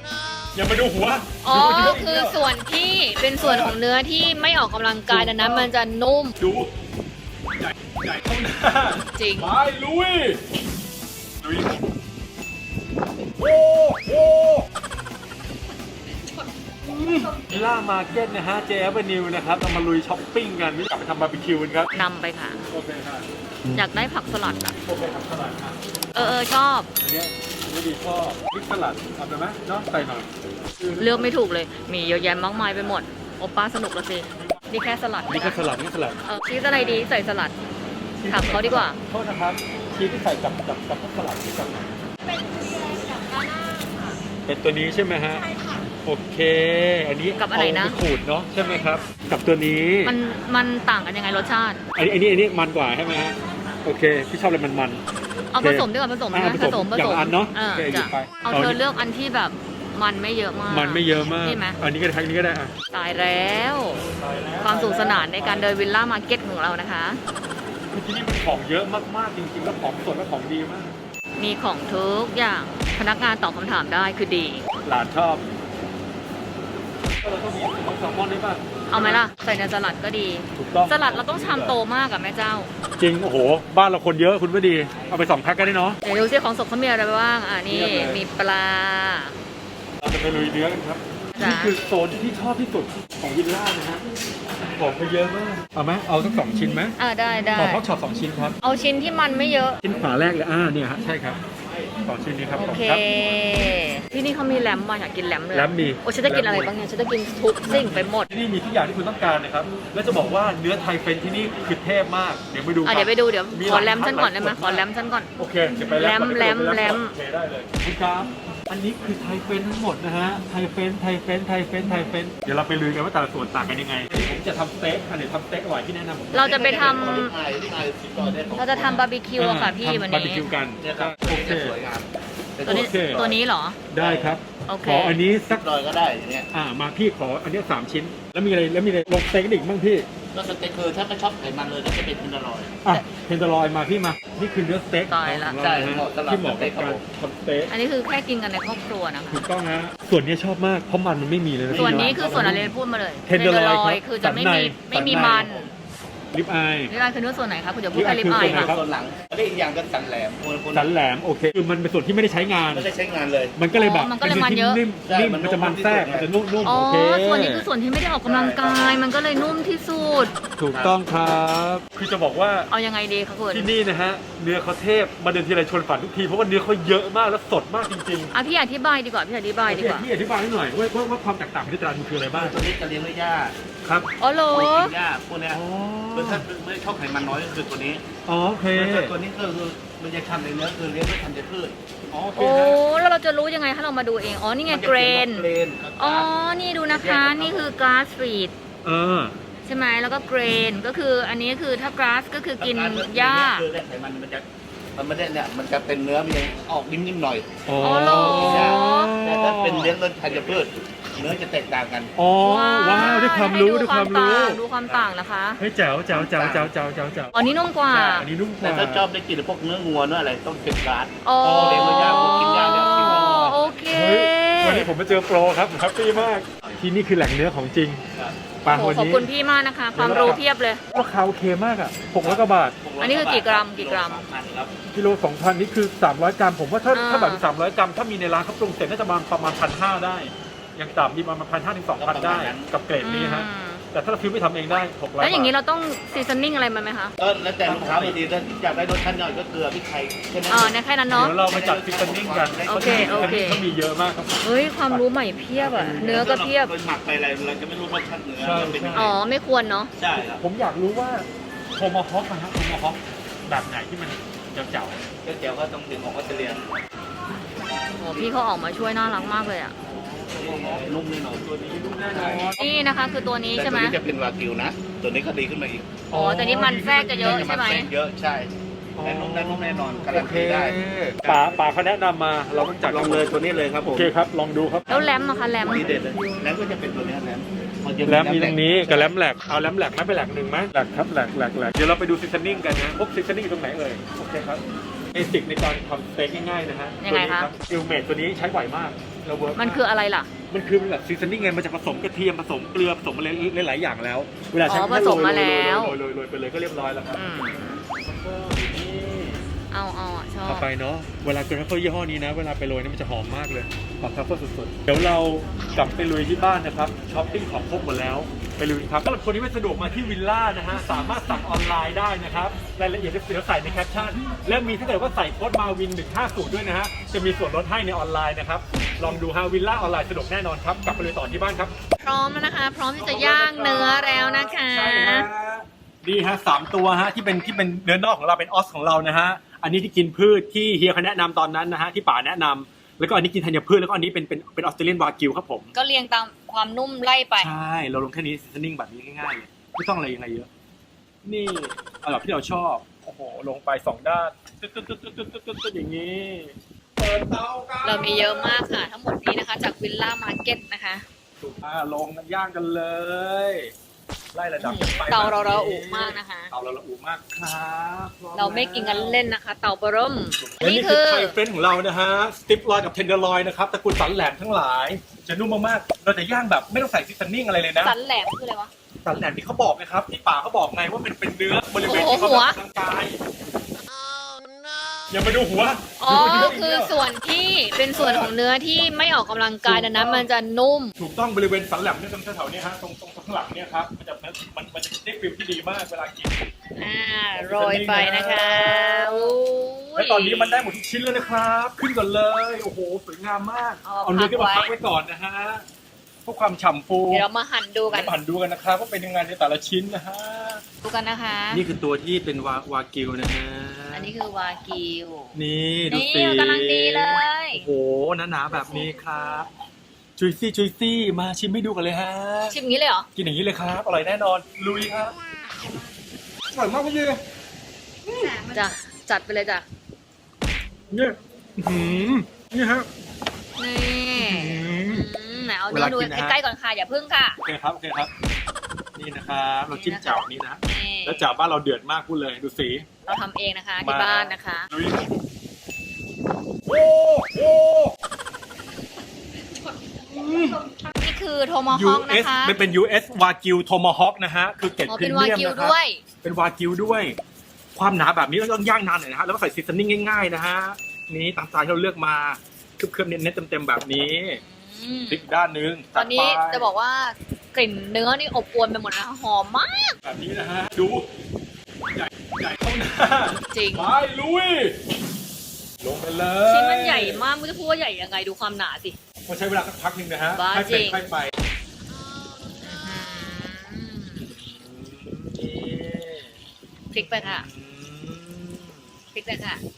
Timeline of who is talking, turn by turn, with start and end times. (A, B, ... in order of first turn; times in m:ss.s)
0:00.5-0:02.4 A
0:01.4-0:06.3 B
0:03.4-0:03.8 A
0:05.1-0:05.7 A
0:06.4-0:06.7 A
0:07.6-0:10.4 A
0:09.1-0:09.5 B
0:11.4-0:11.8 A
0:13.4-0:14.6 A
0:16.8-0:21.9 A
0:21.9-0:22.6 B
0:22.7-0:23.2 A
0:23.7-0:24.8 B
0:24.8-0:26.4 A
0:26.1-0:26.9 B
0:27.0-0:31.4 A
0:31.0-0:35.6 B
0:32.0-0:33.0 A
0:34.3-0:34.6 A
0:35.3-0:36.2 A
0:36.2-0:37.5 B
0:36.7-0:37.0 A
0:38.2-0:41.9 A
0:38.3-0:39.0 B
0:44.4-0:45.4 A
0:46.0-0:50.2 A
0:47.4-0:48.0 B
0:50.0-0:51.8 B
0:51.9-0:55.0 A
0:55.5-1:01.8 B
0:55.6-0:58.8 A
1:00.7-1:02.7 A
1:02.9-1:04.0 B
1:04.1-1:05.7 A
1:04.6-1:07.2 B
1:07.9-1:10.9 A
1:11.4-1:14.6 B
1:14.8-1:15.5 A
1:17.2-1:19.2 A
1:18.9-1:22.7 B
1:20.6-1:21.8 A
1:23.0-1:26.0 A
1:26.0-1:29.3 B
1:27.7-1:28.2 A
1:30.0-1:34.0 A
1:31.4-1:31.8 B
1:34.7-1:37.0 A
1:37.0-1:37.8 B
1:37.5-1:38.6 A
1:38.6-1:39.8 B
1:39.8-1:41.4 A
1:42.0-1:43.0 A
1:42.6-1:48.3 B
1:45.5-1:46.7 A
1:47.6-1:54.8 A
1:52.8-1:55.3 B
1:55.4-2:07.3 A
1:55.9-1:57.1 B
2:06.3-2:07.3 B
2:06.3-2:09.0 C
2:08.6-2:10.5 B
2:09.4-2:11.8 A
2:10.8-2:13.4 C
2:12.6-2:13.8 B
2:12.6-2:13.2 A
2:13.9-2:15.6 A
2:14.0-2:14.4 C
2:14.6-2:15.2 B
2:15.4-2:16.5 C
2:16.5-2:20.1 A
2:20.3-2:22.8 C
2:22.8-2:27.7 A
2:25.1-2:25.6 B
2:25.6-2:27.0 C
2:27.7-2:29.4 B
2:29.3-2:32.7 A
2:31.7-2:32.6 C
2:31.7-2:35.7 B
2:33.2-2:35.6 A
2:36.3-2:36.9 A
2:36.9-2:38.8 B
2:37.9-2:38.8 A
2:37.9-2:40.9 C
2:40.7-2:42.9 A
2:42.7-2:43.6 C
2:43.6-2:47.7 A
2:43.7-2:44.8 B
2:45.0-2:46.3 C
2:46.6-2:50.3 B
2:48.2-2:49.0 C
2:50.6-2:52.7 A
2:52.7-2:53.7 B
2:53.5-2:58.3 A
2:58.3-3:00.1 B
2:59.6-3:02.6 A
3:02.3-3:03.5 C
3:04.2-3:04.9 B
3:04.5-3:05.6 C
3:05.5-3:06.4 A
3:06.1-3:08.0 C
3:08.2-3:09.2 A
3:08.7-3:11.8 C
3:12.1-3:12.8 A
3:12.4-3:18.5 B
3:14.7-3:16.3 C
3:16.9-3:17.7 C
3:18.8-3:19.4 A
3:19.6-3:23.6 B
3:22.6-3:32.1 C
3:27.6-3:30.0 A
3:27.8-3:29.1 B
3:32.1-3:35.1 A
3:32.4-3:35.6 B
3:35.6-3:37.4 A
3:36.1-3:36.7 C
3:37.3-3:38.3 B
3:37.9-3:39.1 A
3:38.6-3:43.6 C
3:41.2-3:44.9 B
3:41.4-3:42.2 A
3:43.0-3:43.4 A
3:43.9-3:48.0 A
3:48.6-3:49.3 A
3:48.7-3:50.8 B
3:49.9-3:52.8 A
3:50.0-3:50.4 C
3:52.2-3:54.7 C
3:53.0-3:54.2 B
3:54.9-4:05.5 A
3:56.9-3:57.4 B
4:02.0-4:02.7 C
4:03.0-4:03.8 B
4:05.2-4:07.1 B
4:07.2-4:10.7 C
4:07.6-4:08.2 A
4:10.5-4:11.4 B
4:11.1-4:15.0 A
4:11.4-4:13.4 C
4:12.7-4:13.7 B
4:14.4-4:16.7 B
4:15.6-4:16.2 A
4:15.8-4:19.1 C
4:18.4-4:19.2 A
4:18.9-4:19.9 B
4:20.0-4:20.4 C
4:20.3-4:25.0 A
4:25.2-4:26.6 C
4:28.0-4:29.7 B
4:29.8-4:30.9 A
4:30.3-4:32.4 C
4:31.5-4:32.6 A
4:32.6-4:34.0 B
4:33.5-4:36.0 C
4:36.1-4:37.5 A
4:36.1-4:37.9 B
4:37.2-4:41.6 C
4:38.9-4:43.3 A
4:42.8-4:44.1 C
4:43.8-4:45.0 A
4:44.9-4:46.0 B
4:45.6-4:49.1 C
4:48.0-4:54.6 A
4:55.1-4:59.8 A
4:57.0-4:57.5 B
4:59.5-5:00.3 B
5:00.5-5:07.2 A
5:04.6-5:06.0 B
5:07.1-5:07.8 B
5:08.0-5:09.4 A
5:09.7-5:10.7 B
5:10.4-5:31.7 A
5:32.0-5:35.3 B
5:33.0-5:45.7 A
5:45.7-5:47.5 B
5:47.4-5:50.5 A
5:51.2-5:58.8 A
5:57.8-6:01.0 B
6:01.4-6:03.7 A
6:04.3-6:09.2 A
6:04.6-6:06.5 B
6:08.3-6:11.4 B
6:10.4-6:18.0 A
6:17.8-6:18.7 B
6:19.0-6:23.2 A
6:21.8-6:22.6 B
6:25.1-6:27.0 A
6:26.0-6:30.9 B
6:27.9-6:28.3 A
6:29.6-6:30.3 A
6:31.0-6:36.3 A
6:36.8-6:40.8 B
6:37.3-6:39.4 A
6:40.0-6:45.6 A
6:43.8-6:44.7 B
6:46.2-6:47.3 A
6:47.1-6:48.2 B
6:47.9-6:50.6 A
6:50.8-6:51.6 B
6:51.5-6:54.1 A
6:53.9-6:55.3 B
6:55.3-6:59.5 A
6:55.9-6:57.7 B
7:00.2-7:02.6 A
7:02.5-7:03.0 B
7:03.1-7:05.1 A
7:06.5-7:07.2 A
7:08.0-7:08.4 A
7:08.3-7:09.6 B
7:10.9-7:12.9 A
7:13.6-7:17.4 B
7:14.2-7:15.0 A
7:15.7-7:16.4 A
7:17.4-7:18.1 A
7:19.0-7:22.8 A
7:19.7-7:21.3 B
7:23.1-7:24.7 B
7:23.8-7:25.2 A
7:26.6-7:27.9 A
7:30.1-7:30.7 A
7:31.0-7:32.6 B
7:31.7-7:37.2 A
7:34.9-7:36.0 B
7:37.7-7:44.4 A
7:44.3-7:45.2 B
7:45.1-7:46.7 A
7:45.9-7:50.0 B
7:50.0-7:51.1 A
7:51.9-7:54.8 A
7:53.5-7:53.9 B
7:55.8-7:57.2 A
7:56.4-7:59.0 B
7:59.2-8:01.3 A
8:00.3-8:01.0 B
8:02.6-8:04.3 B
8:04.3-8:06.3 A
8:06.9-8:07.5 B
8:06.9-8:08.8 A
8:09.1-8:09.6 B